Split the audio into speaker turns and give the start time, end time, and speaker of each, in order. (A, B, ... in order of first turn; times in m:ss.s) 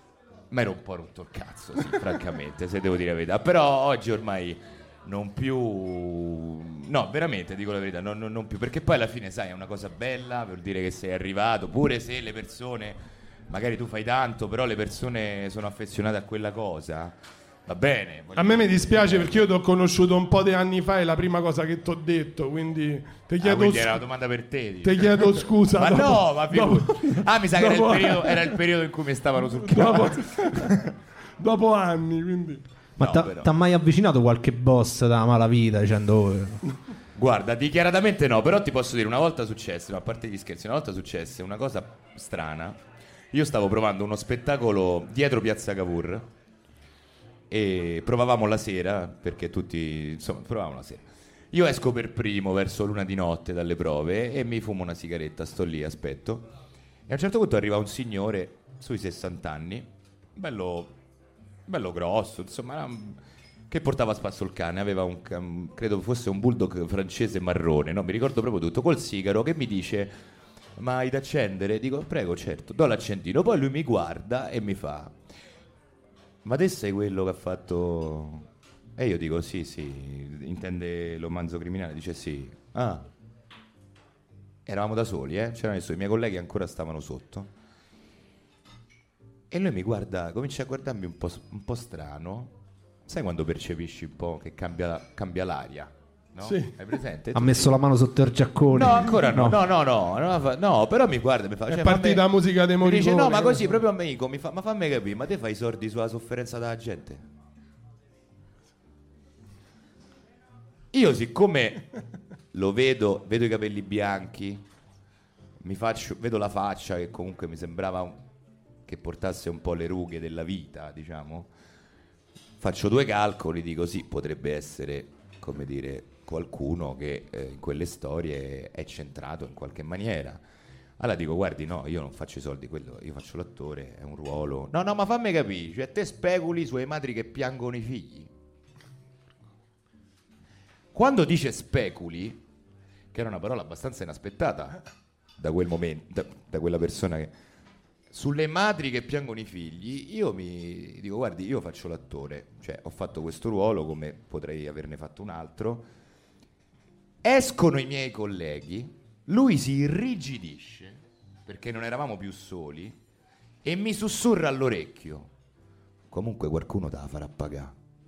0:00.5-0:19.5 A
0:18.4-0:24.0 B
0:23.4-0:30.9 A
0:24.8-0:28.6 B
0:29.6-0:30.8 B
0:31.4-0:32.6 B
0:33.0-0:33.5 A
0:33.0-0:36.6 C
0:37.2-0:42.8 A
0:43.3-0:46.3 A
0:47.5-0:56.5 A
0:57.1-1:00.9 A
1:01.7-1:10.2 A
1:10.8-1:15.2 A
1:16.4-1:23.1 A
1:24.7-1:27.5 A
1:29.5-1:32.5 A
1:33.1-1:37.7 A
1:36.4-1:36.7 B
1:37.4-1:39.6 C
1:38.7-1:42.2 A
1:41.7-1:43.8 B
1:42.8-1:47.2 A
1:50.9-1:51.9 A
1:52.5-1:54.6 A
1:55.6-1:58.2 A
1:58.9-2:01.5 A
2:02.6-2:10.4 A
2:11.0-2:18.3 A
2:20.9-2:22.4 A
2:23.1-2:24.8 A
2:25.4-2:27.3 A
2:28.1-2:35.9 A
2:37.2-2:43.0 A
2:43.6-2:45.3 A
2:46.1-2:47.7 A